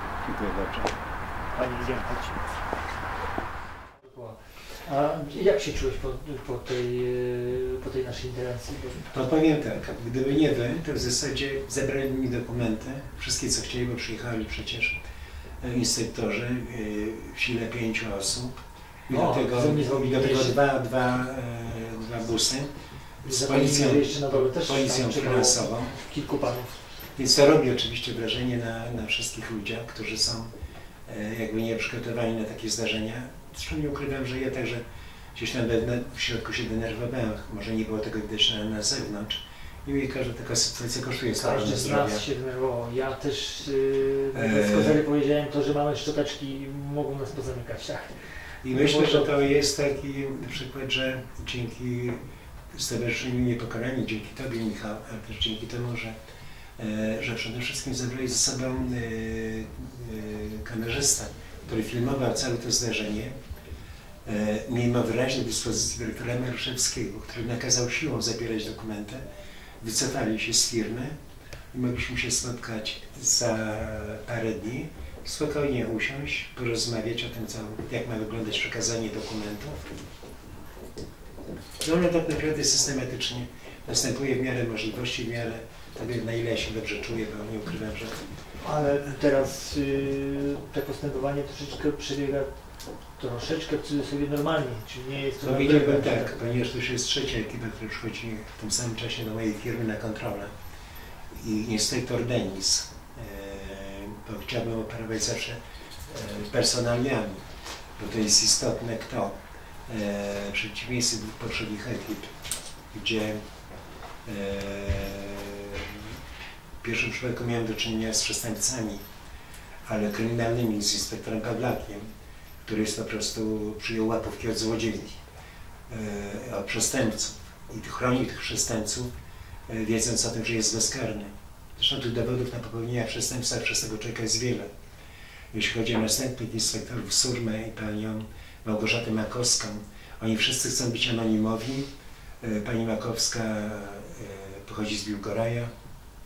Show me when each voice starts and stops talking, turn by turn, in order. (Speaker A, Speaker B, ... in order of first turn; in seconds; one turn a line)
Speaker A: 0.2-0.9
Speaker B: 1.5-2.4
Speaker B: 4.0-9.1
Speaker A: 9.1-15.0
Speaker A: 15.6-26.0
Speaker B: 19.1-20.6
Speaker B: 23.2-26.8
Speaker A: 27.1-30.5
Speaker A: 31.1-34.8
Speaker A: 35.3-42.2
Speaker B: 41.3-49.3
Speaker A: 44.3-45.0
Speaker A: 48.6-52.2
Speaker A: 52.7-56.1
Speaker A: 56.8-63.3
Speaker A: 64.2-69.2
Speaker A: 69.8-71.1
Speaker A: 71.7-79.8
Speaker A: 81.8-88.1
Speaker B: 88.6-92.5
Speaker B: 93.2-96.3
Speaker A: 95.4-100.5
Speaker A: 101.3-107.4
Speaker A: 108.0-109.3
Speaker A: 109.9-112.3
Speaker A: 112.9-113.4
Speaker A: 114.2-116.2
Speaker A: 116.8-119.0
Speaker A: 119.8-122.0
Speaker A: 122.6-125.2
Speaker A: 125.9-129.1
Speaker A: 129.7-134.7
Speaker A: 135.5-141.9
Speaker A: 142.4-145.7